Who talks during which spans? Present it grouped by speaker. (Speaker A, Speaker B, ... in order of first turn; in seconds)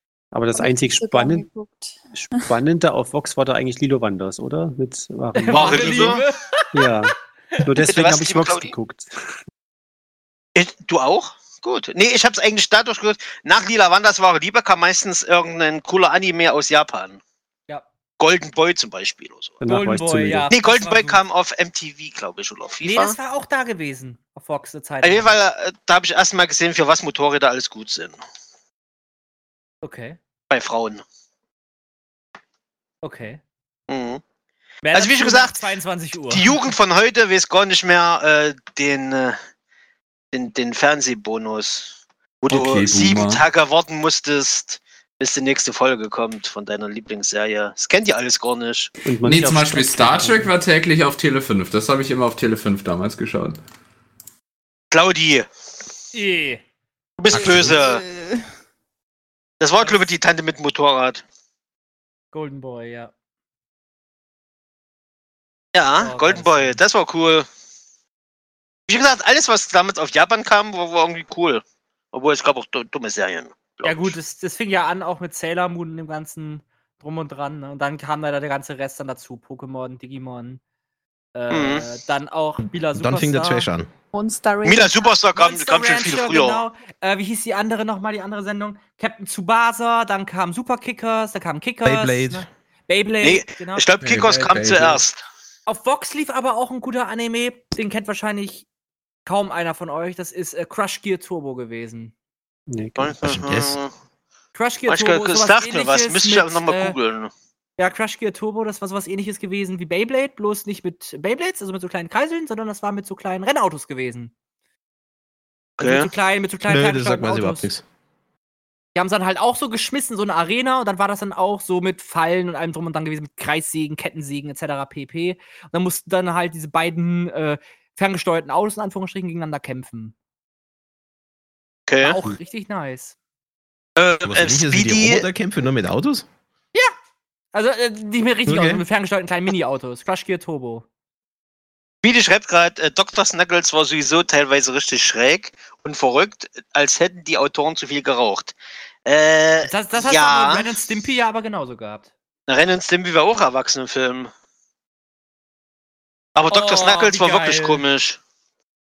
Speaker A: 0.3-1.4, 2.2-6.2, 6.7-9.1, 19.6-20.5, 49.0-50.5, 102.7-103.2
Speaker B: 0.5-2.5, 57.5-58.4, 84.1-85.2
Speaker C: 5.3-6.9, 19.7-21.2, 22.8-25.3, 29.8-30.2, 33.0-33.4, 34.8-36.5, 56.1-56.6, 59.8-60.1, 62.3-63.1, 66.0-66.8, 73.8-80.6, 81.3-83.7, 85.3-93.8, 95.7-98.7, 99.3-102.1, 104.5-107.0, 107.8-114.3, 115.8-117.7, 119.0-130.1, 132.0-133.2, 137.5-140.8, 149.6-152.1, 156.5-157.8
Speaker D: 5.5-6.2, 7.9-8.7, 10.6-17.2, 18.2-19.6, 20.5-23.2, 25.0-28.2, 30.5-31.0, 33.9-34.2, 34.9-35.6, 36.3-39.4, 40.3-48.9, 54.9-55.5, 57.2-58.0, 59.6-61.2, 65.8-67.5, 68.9-74.2, 81.5-81.9, 84.6-86.6, 93.2-95.2, 103.0-103.9, 104.9-107.3, 115.8-116.1, 131.9-132.2, 134.0-135.3, 142.0-150.7, 152.5-154.3, 156.3-158.2
Speaker E: 42.5-43.4, 49.2-53.6, 94.0-95.0
Speaker F: 82.9-83.9, 91.8-92.5, 103.2-103.8, 116.6-117.8, 134.2-136.3, 138.5-138.8